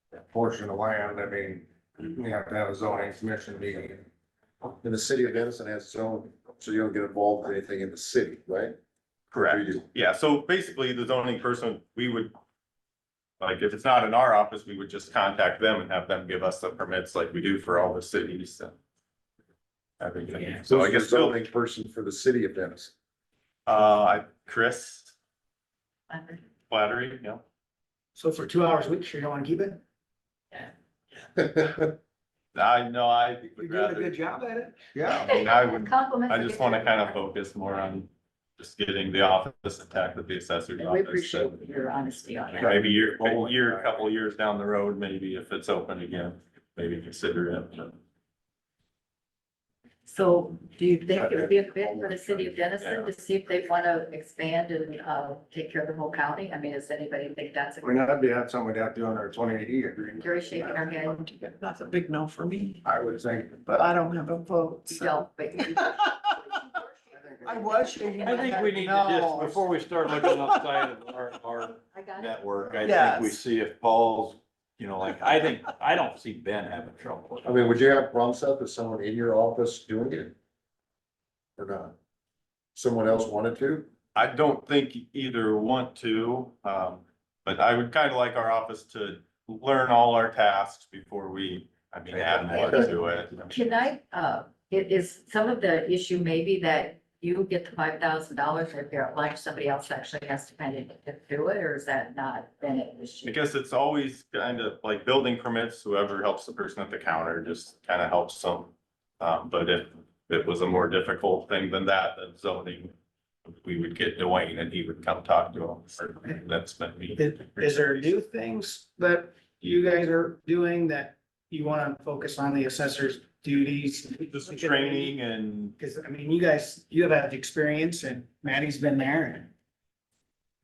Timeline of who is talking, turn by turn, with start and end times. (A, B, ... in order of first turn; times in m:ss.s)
0:00.3-0:04.0 A
0:04.8-0:08.8 B
0:09.3-0:12.3 C
0:09.4-0:09.8 B
0:13.4-0:18.8 C
0:20.0-0:21.4 C
0:20.6-0:22.9 B
0:23.6-0:25.1 C
0:26.1-0:26.4 D
0:26.7-0:27.4 C
0:28.2-0:29.8 E
0:31.4-0:31.9 B
0:32.5-0:34.2 C
0:33.6-0:35.3 E
0:35.0-0:41.6 C
0:35.2-0:37.2 D
0:40.8-0:42.8 D
0:42.6-0:48.0 C
0:42.6-0:43.9 A
0:50.0-0:58.0 D
0:51.1-0:52.5 A
0:52.8-0:53.1 C
0:57.8-1:00.4 A
1:00.2-1:01.2 D
1:01.4-1:02.8 F
1:02.8-1:03.7 A
1:03.8-1:04.9 F
1:04.9-1:08.9 D
1:08.2-1:17.8 G
1:08.5-1:08.7 E
1:08.9-1:09.6 F
1:10.3-1:10.5 F
1:11.9-1:12.8 D
1:12.9-1:13.2 F
1:17.4-1:20.3 B
1:21.6-1:21.9 B
1:22.7-1:23.9 B
1:24.1-1:33.7 C
1:32.1-1:33.0 G
1:32.5-1:32.9 B
1:33.5-1:43.4 D
1:43.2-1:52.9 C
1:53.4-1:58.2 C
1:57.1-2:05.2 E
2:04.3-2:05.7 C
2:05.8-2:09.5 E